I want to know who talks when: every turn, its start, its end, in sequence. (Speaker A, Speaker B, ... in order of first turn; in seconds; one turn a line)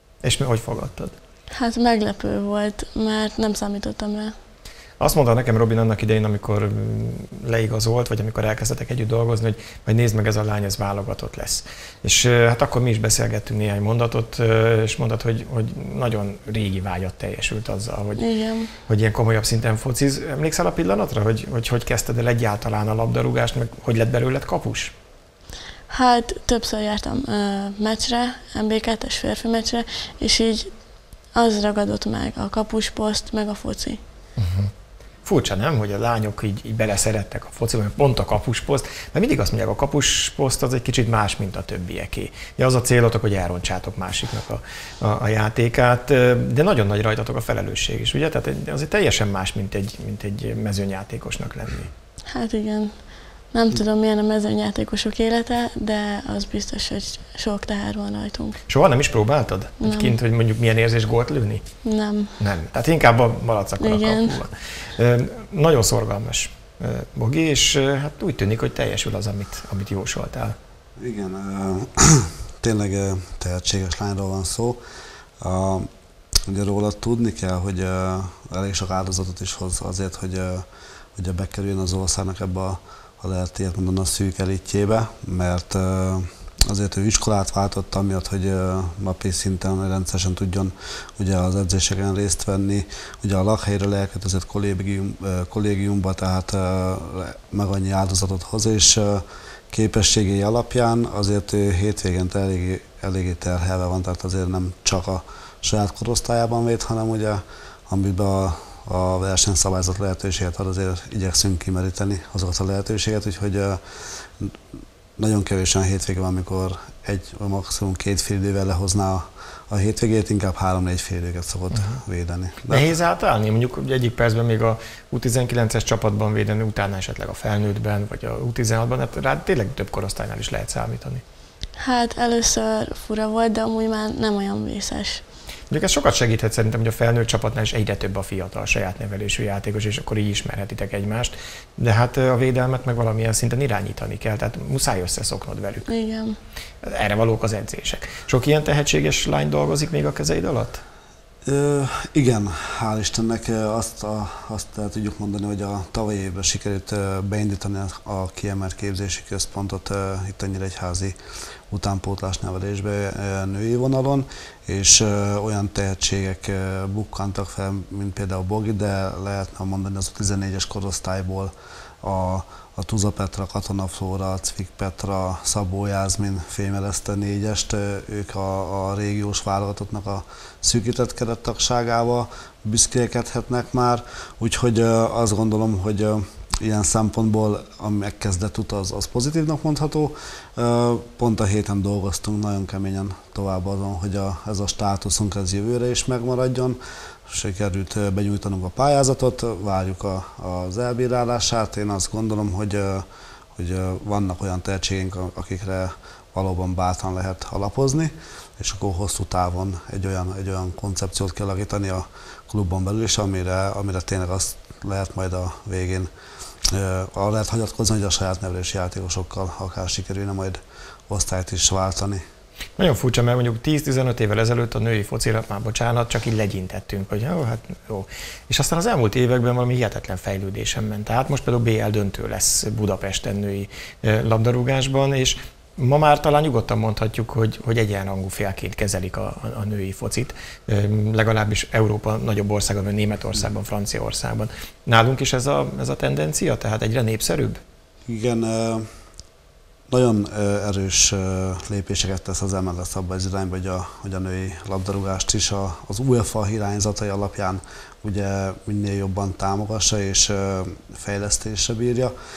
Speaker A: 0.2-1.1
Speaker B: 1.5-4.3
Speaker A: 5.0-18.2
Speaker B: 18.2-18.7
Speaker A: 18.9-24.9
Speaker B: 25.9-30.7
Speaker B: 31.3-34.0
Speaker A: 34.4-34.7
Speaker A: 35.2-51.9
Speaker B: 52.3-52.9
Speaker B: 53.5-58.6
Speaker A: 58.7-61.6
Speaker B: 59.8-60.1
Speaker B: 61.8-62.3
Speaker A: 62.4-70.5
Speaker B: 63.8-64.4
Speaker C: 71.0-74.8
Speaker C: 75.4-75.9
Speaker C: 76.5-80.6
Speaker C: 81.2-113.8
Speaker C: 115.2-122.9
Speaker A: 121.7-122.0
Speaker A: 122.7-131.2
Speaker B: 131.8-135.2
Speaker A: 135.7-145.9
Speaker B: 145.9-146.3
Speaker A: 146.8-150.8
Speaker C: 151.4-161.2
Speaker C: 161.7-203.0
Speaker C: 203.6-216.1
Speaker C: 216.7-222.2
Speaker A: 222.8-247.6
Speaker C: 248.1-248.8
Speaker C: 249.9-262.1